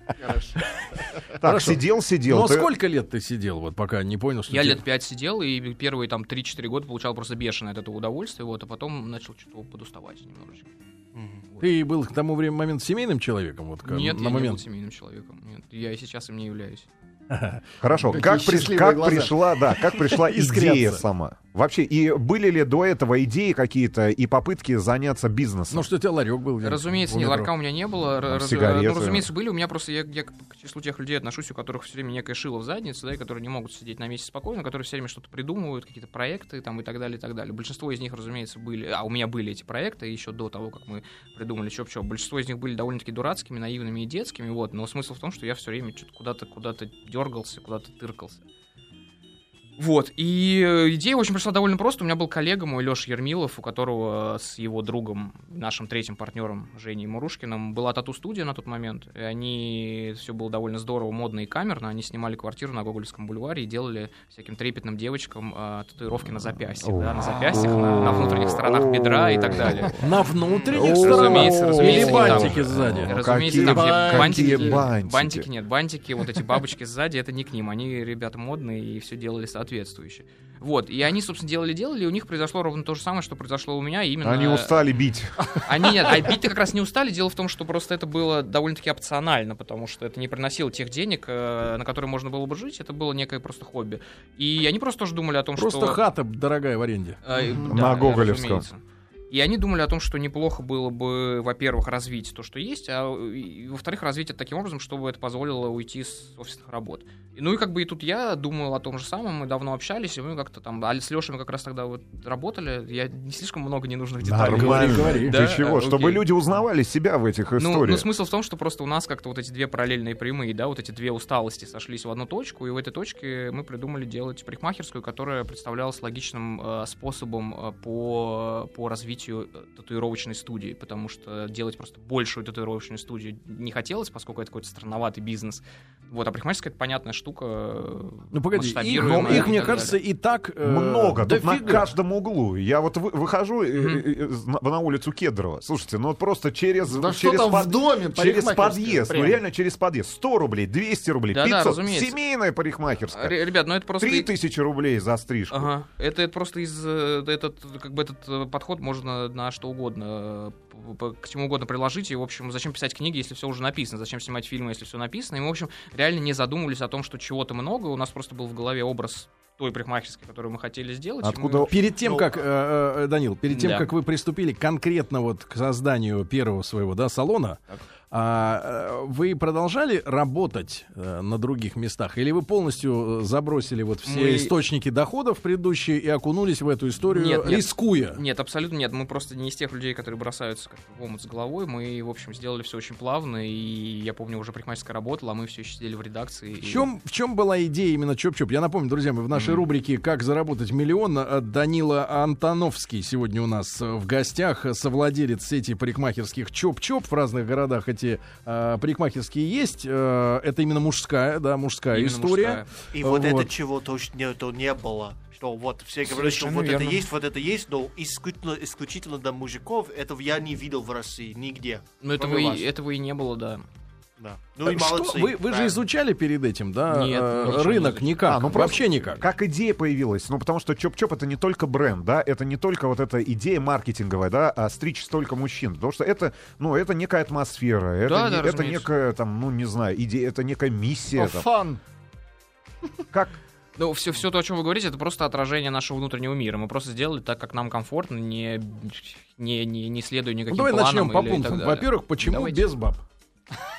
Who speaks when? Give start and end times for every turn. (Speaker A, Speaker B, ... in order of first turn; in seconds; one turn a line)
Speaker A: 0.2-0.6
Speaker B: 1.4-2.7
Speaker C: 1.4-4.8
Speaker D: 4.5-10.7
Speaker E: 11.1-11.5
Speaker C: 11.6-14.6
Speaker D: 13.8-16.9
Speaker C: 17.3-17.7
Speaker B: 17.8-25.9
Speaker A: 18.1-19.4
Speaker C: 20.1-21.0
Speaker C: 25.7-27.5
Speaker D: 26.6-48.4
Speaker B: 28.3-29.3
Speaker D: 49.8-70.0
Speaker B: 66.8-69.6
Speaker C: 70.0-73.2
Speaker E: 70.5-70.8
Speaker B: 70.7-75.5
Speaker D: 70.8-84.8
Speaker A: 73.6-74.9
Speaker B: 84.2-86.2
Speaker D: 85.5-96.0
Speaker C: 95.6-97.2
Speaker D: 97.2-116.3
Speaker A: 97.4-97.7
Speaker B: 97.7-98.7
Speaker B: 114.2-118.1
Speaker C: 114.5-115.4
Speaker D: 117.6-140.0
Speaker C: 138.3-141.9
Speaker B: 139.1-139.6
Speaker B: 140.6-153.4
Speaker D: 143.7-144.1
Speaker A: 146.9-149.4
Speaker D: 151.3-152.2
Speaker D: 153.1-154.3
Speaker B: 154.0-155.7
Speaker D: 155.5-171.7
Speaker B: 171.2-171.8
Speaker C: 171.7-188.2
Speaker D: 173.5-173.9
Speaker D: 184.1-184.5
Speaker D: 187.1-196.9
Speaker C: 196.6-213.5
Speaker D: 199.3-199.7
Speaker D: 211.9-212.7
Speaker E: 212.9-222.7
Speaker D: 216.1-217.1
Speaker D: 222.0-223.7
Speaker E: 224.2-225.8
Speaker C: 224.7-229.3
Speaker D: 226.9-229.0
Speaker B: 228.3-241.5
Speaker D: 238.1-238.9
Speaker A: 241.1-241.8
Speaker D: 243.8-252.6
Speaker C: 250.5-253.0